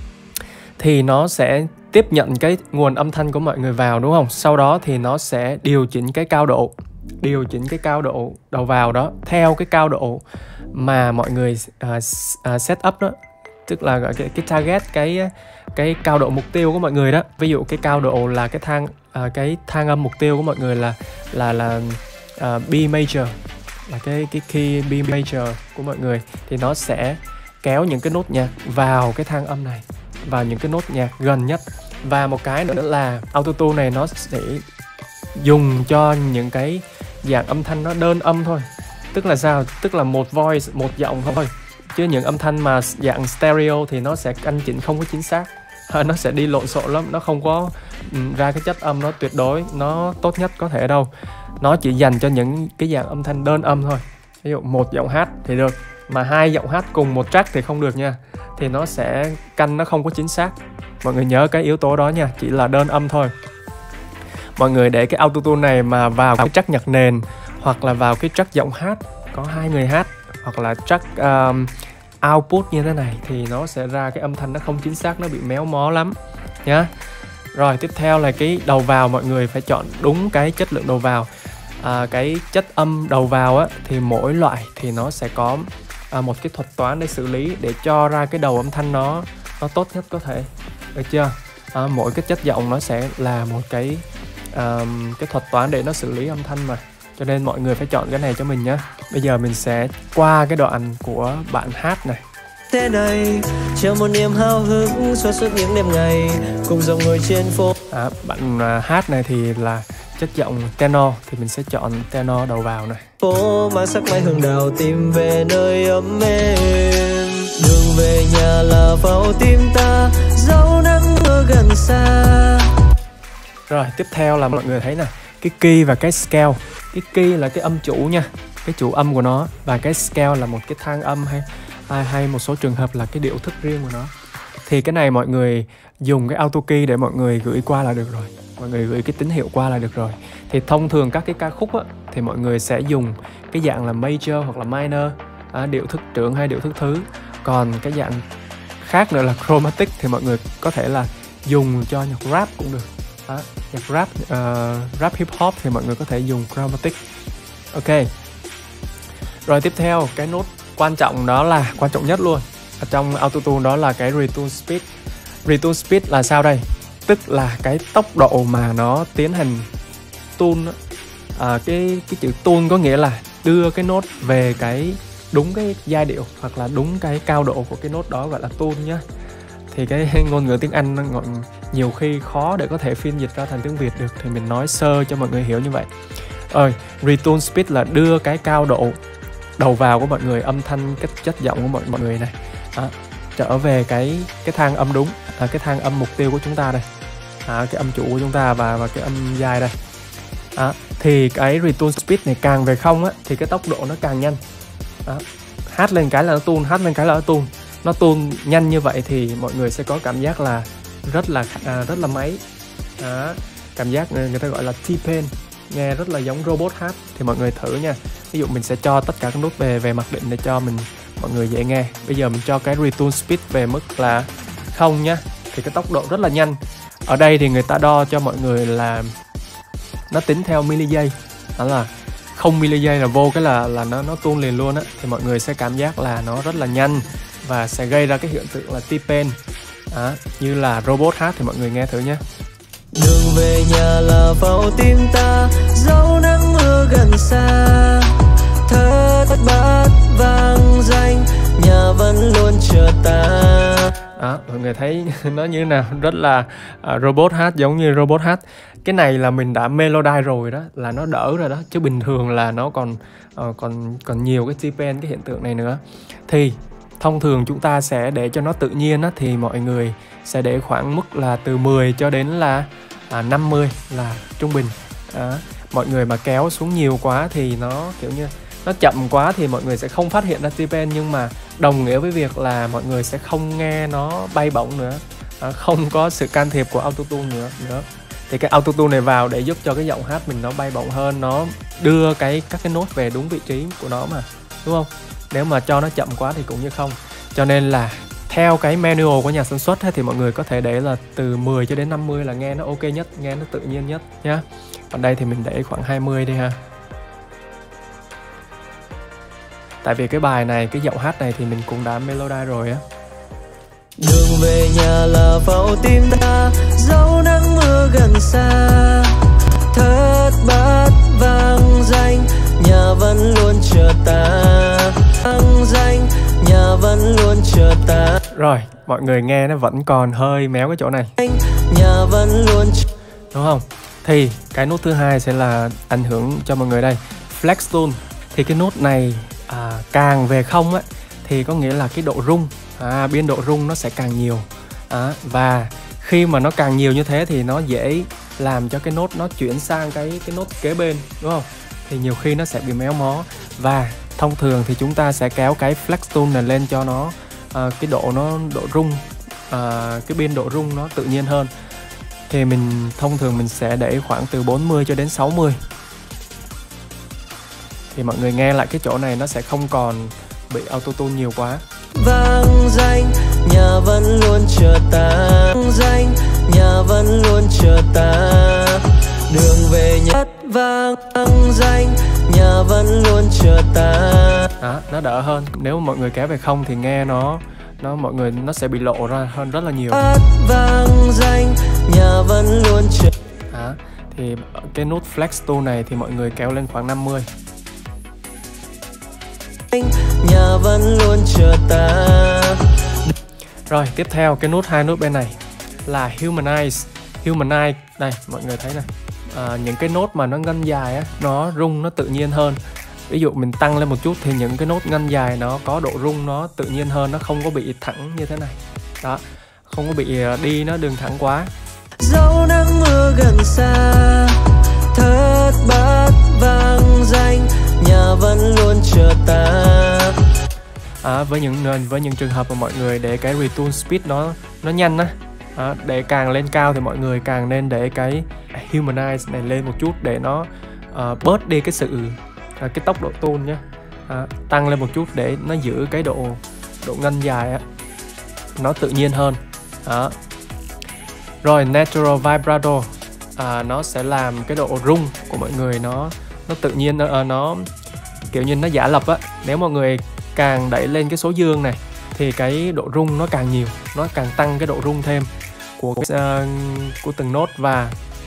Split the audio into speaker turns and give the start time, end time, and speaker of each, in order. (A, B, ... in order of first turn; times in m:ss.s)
0:00.8-0:13.2 A
0:13.7-0:23.4 A
0:23.9-0:34.6 A
0:35.4-0:51.1 A
0:51.6-1:03.3 A
1:04.6-1:16.9 A
1:17.5-1:21.3 A
1:21.8-1:42.2 A
1:42.7-1:47.7 B
1:47.9-1:53.0 A
1:53.2-2:02.8 B
2:03.7-2:14.1 A
2:14.6-2:28.2 A
2:28.8-2:37.0 A
2:37.7-2:38.1 A
2:39.5-2:44.9 A
2:45.5-2:49.7 A
2:50.4-2:50.8 A
2:51.4-2:59.0 A
2:59.7-3:05.9 A
3:06.5-3:09.0 A
3:09.6-3:16.8 A
3:17.4-3:19.7 A
3:20.6-3:24.4 A
3:25.0-3:32.4 A
3:33.0-3:49.1 A
3:50.1-3:59.4 A
3:59.9-4:02.2 A
4:02.9-4:14.0 B
4:14.2-5:06.6 A
5:09.8-5:12.8 A
5:14.0-5:28.2 B
5:28.3-5:31.1 A
5:31.2-5:32.9 B
5:33.3-6:01.5 A
6:02.3-6:05.6 A
6:07.9-6:11.6 A
6:11.9-6:24.5 B
6:24.6-6:30.0 A
6:29.9-6:33.1 B
6:33.5-6:37.3 A
6:39.7-6:43.1 B
6:43.7-7:01.5 A
7:02.0-7:10.2 B
7:11.0-7:27.6 A
7:28.6-7:30.1 A
7:31.4-7:37.7 A
7:38.3-7:48.0 A